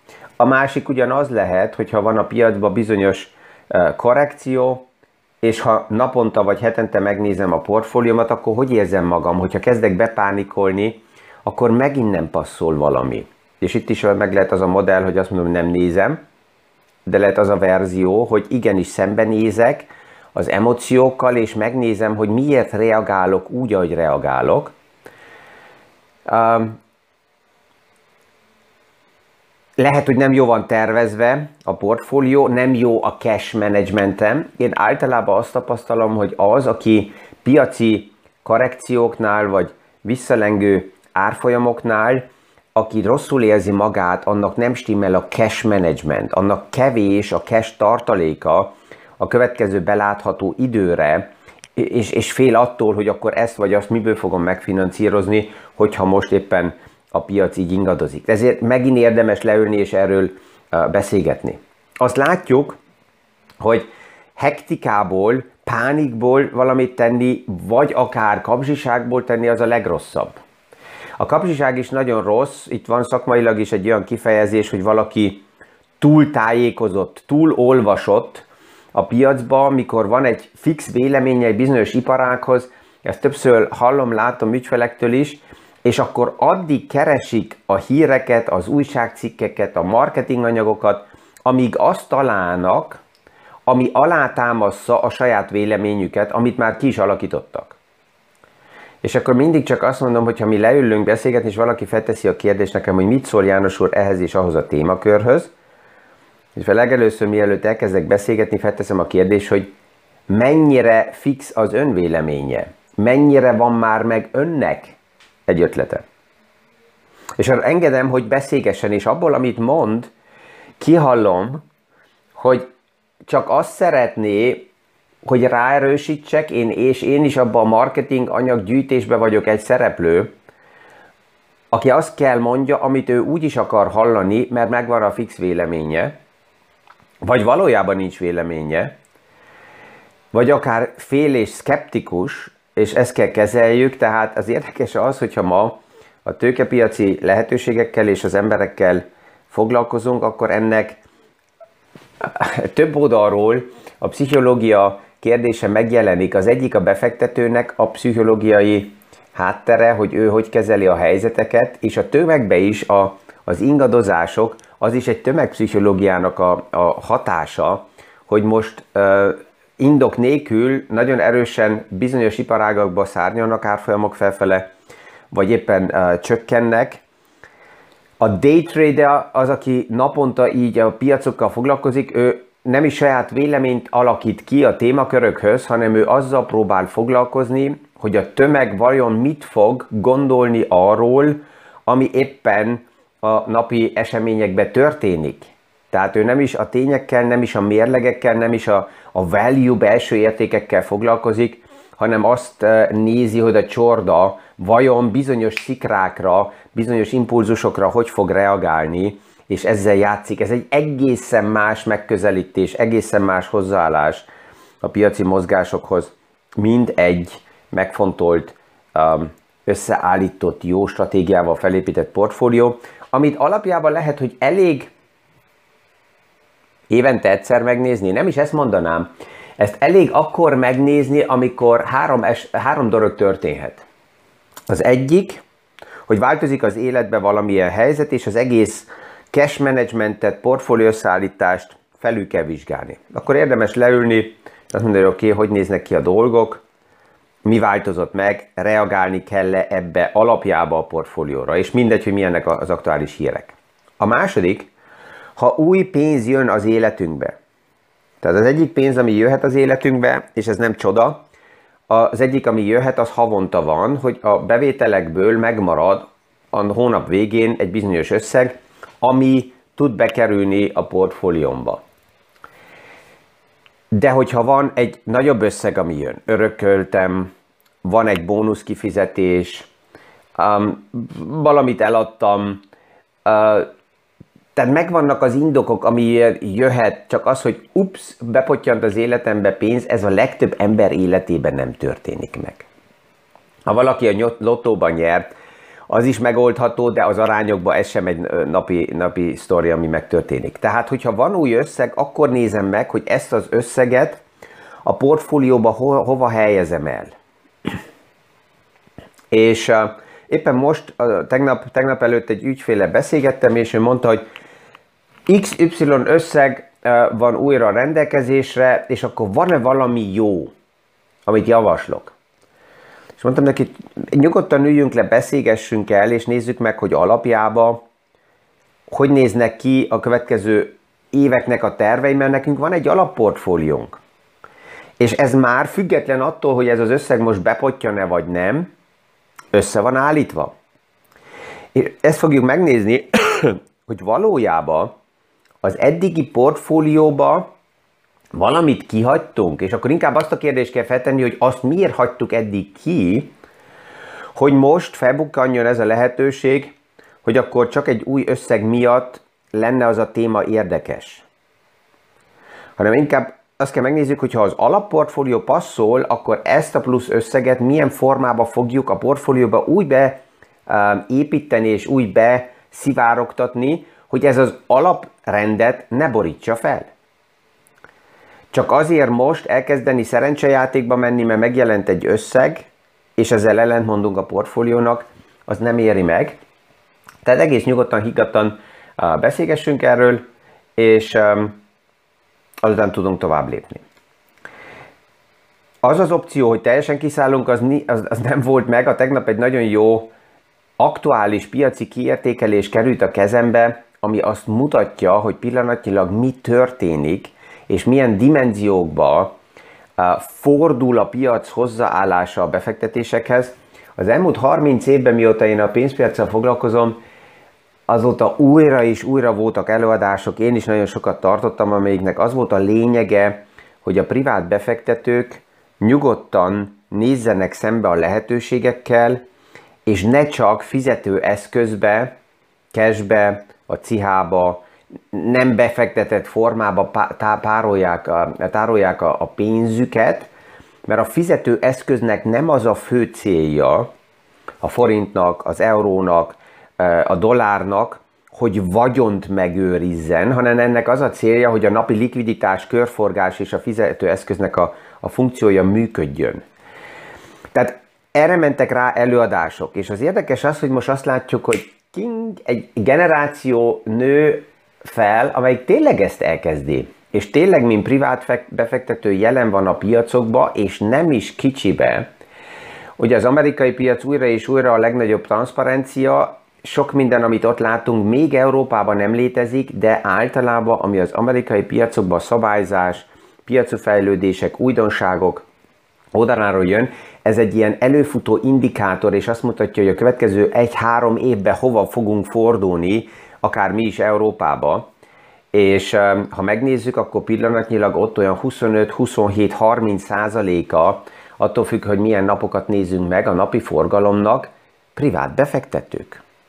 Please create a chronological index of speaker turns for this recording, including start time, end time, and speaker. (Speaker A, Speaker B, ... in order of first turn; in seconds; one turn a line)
Speaker A: 0.4-4.8
Speaker A: 5.4-16.2
Speaker A: 17.1-24.7
Speaker A: 26.2-26.8
Speaker A: 29.8-62.8
Speaker A: 63.6-70.4
Speaker A: 71.2-75.4
Speaker A: 76.0-93.0
Speaker A: 93.7-97.8
Speaker A: 99.0-105.5
Speaker A: 106.5-109.7
Speaker A: 110.3-115.0
Speaker A: 115.5-116.0
Speaker A: 117.4-120.1
Speaker A: 120.8-121.6
Speaker A: 122.3-122.7
Speaker A: 123.3-124.7
Speaker A: 125.2-130.3
Speaker A: 131.7-136.2
Speaker A: 137.2-138.9
Speaker A: 140.3-151.0
Speaker A: 152.2-174.7
Speaker A: 175.3-177.0
Speaker A: 178.2-214.3
Speaker A: 214.8-224.9
Speaker A: 226.9-233.8
Speaker A: 234.7-235.4
Speaker A: 236.1-246.6
Speaker A: 247.4-254.7
Speaker A: 255.4-257.3
Speaker A: 258.2-261.2
Speaker A: 261.9-271.8
Speaker A: 273.9-277.3
Speaker A: 277.8-279.7
Speaker A: 280.4-282.6
Speaker A: 283.2-283.7
Speaker A: 284.5-292.6
Speaker A: 293.6-295.3
Speaker A: 295.9-304.2
Speaker A: 304.8-307.1
Speaker A: 309.3-314.2
Speaker A: 315.3-320.5
Speaker A: 321.2-322.1
Speaker A: 323.2-327.8
Speaker A: 328.9-334.0
Speaker A: 335.0-338.7
Speaker A: 339.5-340.5
Speaker A: 341.7-344.9
Speaker A: 345.6-347.5
Speaker A: 348.3-353.3
Speaker A: 354.4-361.2
Speaker A: 362.8-376.9
Speaker A: 378.5-386.4
Speaker A: 387.2-390.2
Speaker A: 390.8-391.6
Speaker A: 392.6-393.8
Speaker A: 395.8-400.1
Speaker A: 400.8-409.3
Speaker A: 410.0-417.0
Speaker A: 417.9-429.2
Speaker A: 429.9-432.1
Speaker A: 432.7-440.3
Speaker A: 440.9-443.9
Speaker A: 444.6-456.4
Speaker A: 457.5-472.1
Speaker A: 473.0-485.4
Speaker A: 486.1-494.9
Speaker A: 495.5-506.2